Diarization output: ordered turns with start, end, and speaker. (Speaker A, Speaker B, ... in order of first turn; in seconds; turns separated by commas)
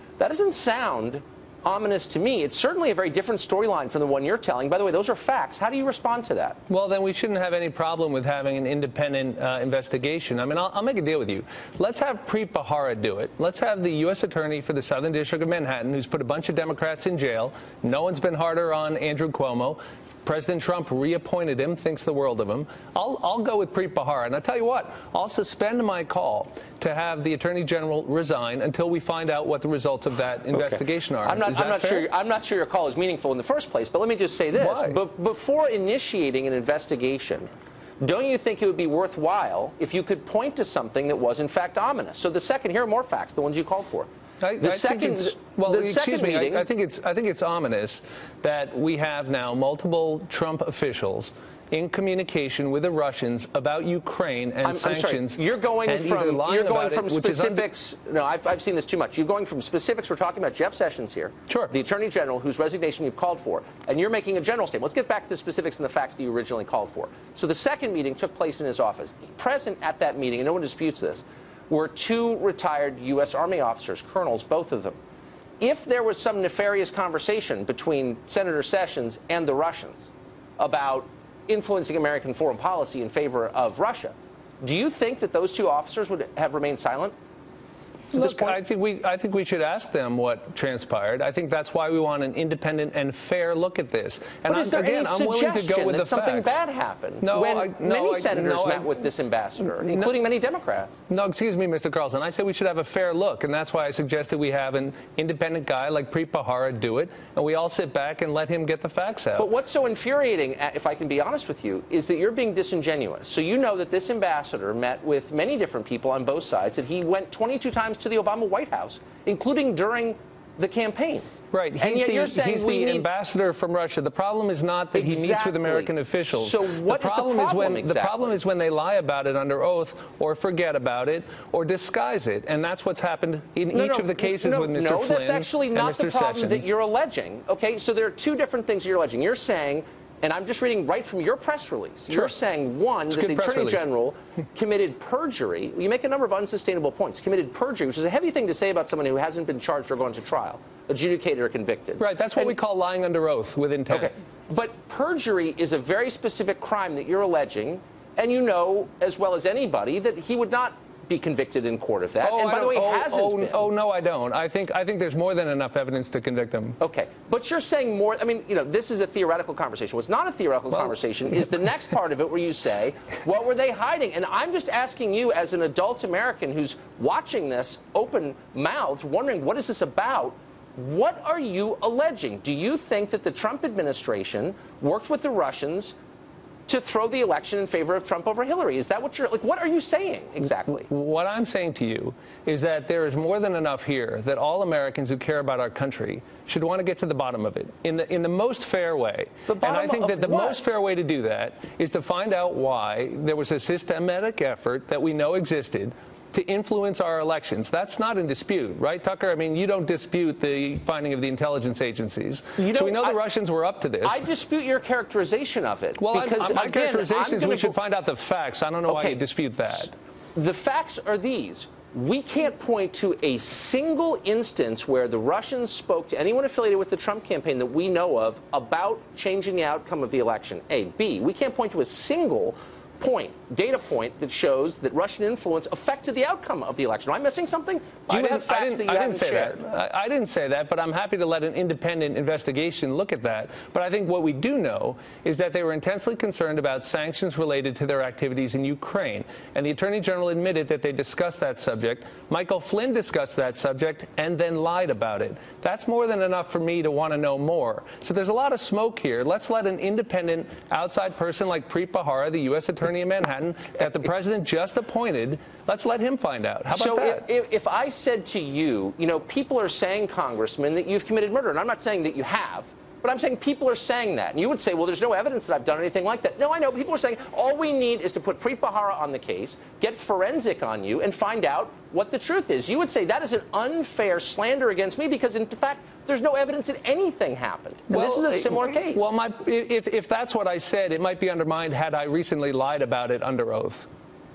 Speaker A: 0.2-6.6, Speaker B: 6.7-32.1, Speaker A: 30.6-37.5, Speaker B: 34.5-35.0, Speaker A: 38.0-44.1, Speaker B: 44.4-57.7, Speaker A: 44.6-46.7, Speaker A: 54.6-75.0, Speaker B: 61.5-61.7, Speaker A: 75.6-87.1, Speaker A: 88.1-88.6, Speaker B: 88.1-96.6, Speaker A: 94.5-101.0, Speaker B: 97.2-99.0, Speaker B: 99.8-100.1, Speaker B: 101.1-109.5, Speaker A: 109.4-123.1, Speaker B: 121.5-136.7, Speaker A: 124.9-128.3, Speaker A: 133.7-152.5, Speaker B: 143.1-143.8, Speaker B: 152.0-154.1, Speaker A: 153.9-163.6, Speaker B: 162.2-166.8, Speaker A: 166.8-185.9, Speaker A: 186.7-190.9, Speaker B: 190.7-214.2, Speaker A: 199.5-200.7, Speaker A: 212.6-213.2, Speaker A: 214.0-217.8, Speaker B: 216.0-219.9, Speaker A: 218.9-219.2, Speaker A: 220.4-239.6, Speaker B: 238.1-267.2, Speaker A: 266.7-289.1, Speaker B: 287.9-293.8